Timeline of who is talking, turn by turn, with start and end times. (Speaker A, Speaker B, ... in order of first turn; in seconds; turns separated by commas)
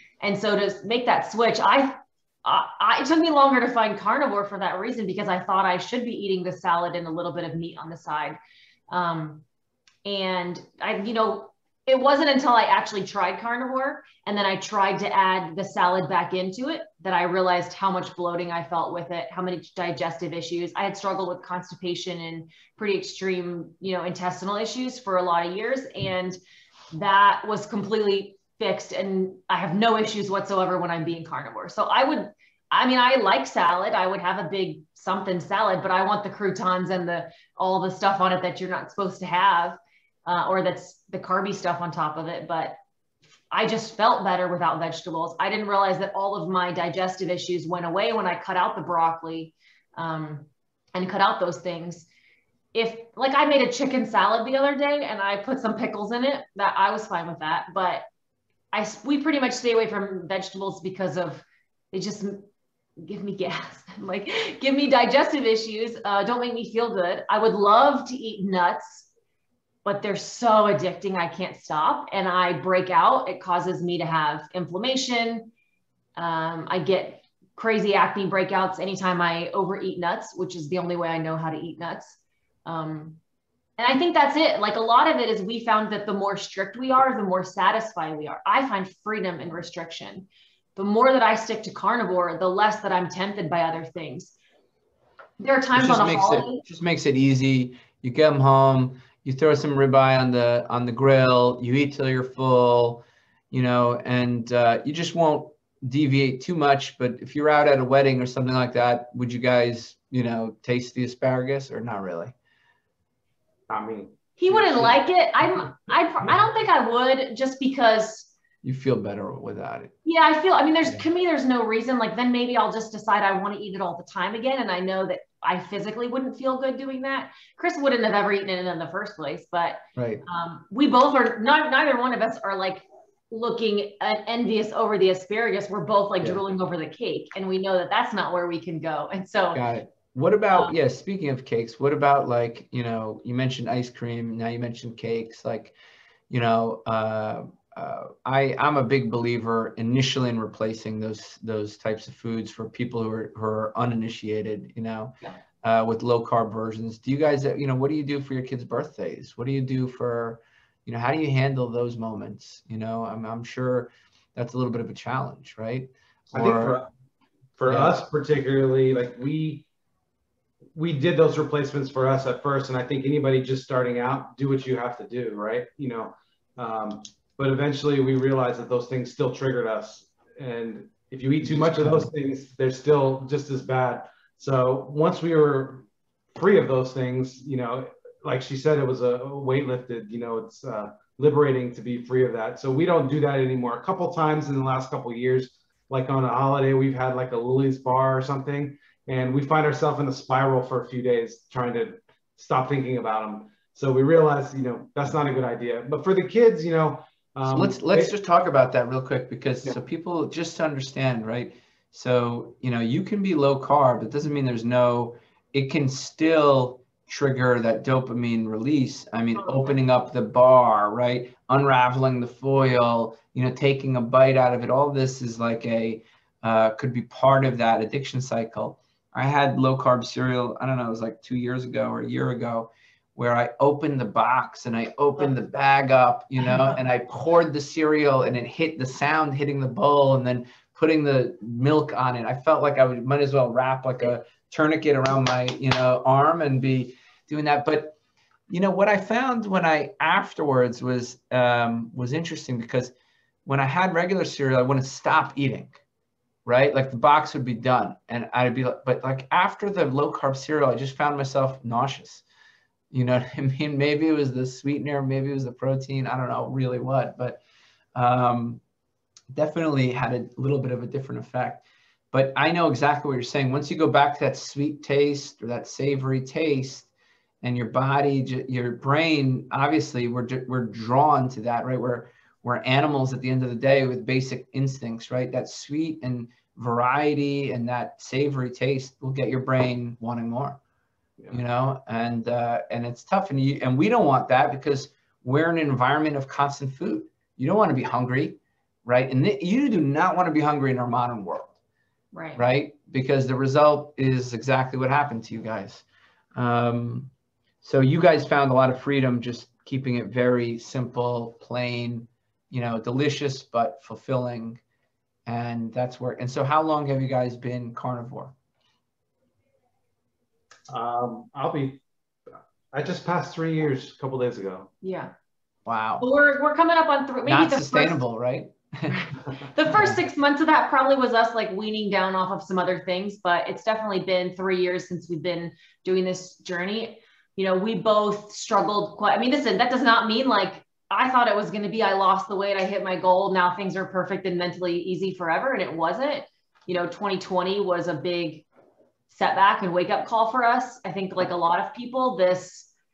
Speaker A: 0.2-8.4, Speaker A: 8.9-9.4, Speaker A: 10.0-26.4, Speaker A: 26.9-42.8, Speaker A: 43.5-52.1, Speaker A: 52.7-58.0, Speaker A: 58.7-62.5, Speaker A: 63.0-69.1, Speaker A: 69.8-75.5, Speaker A: 76.2-83.2, Speaker A: 83.8-94.3, Speaker A: 95.4-96.6, Speaker B: 95.7-112.3, Speaker C: 113.7-115.0, Speaker A: 114.4-118.3, Speaker B: 118.6-119.9, Speaker A: 120.0-139.6, Speaker B: 129.9-130.2, Speaker B: 139.5-145.7, Speaker B: 146.3-166.8, Speaker C: 166.3-166.9, Speaker C: 167.6-169.7, Speaker B: 167.7-167.9, Speaker C: 170.7-208.1, Speaker B: 181.4-182.1, Speaker B: 207.4-247.9, Speaker B: 248.5-252.9, Speaker B: 253.4-255.8, Speaker B: 256.4-262.2, Speaker B: 262.9-267.4, Speaker B: 267.9-268.6, Speaker B: 269.3-276.9, Speaker B: 277.4-290.6, Speaker B: 291.3-301.5, Speaker A: 302.1-302.4, Speaker B: 302.3-305.8, Speaker B: 306.3-307.1, Speaker B: 307.6-314.6, Speaker B: 315.2-318.3, Speaker C: 320.7-321.8, Speaker C: 322.7-324.7, Speaker A: 324.8-325.1, Speaker B: 325.6-326.1, Speaker A: 326.0-328.0, Speaker B: 327.2-329.2, Speaker A: 329.5-348.4, Speaker B: 329.7-330.0, Speaker A: 349.1-352.7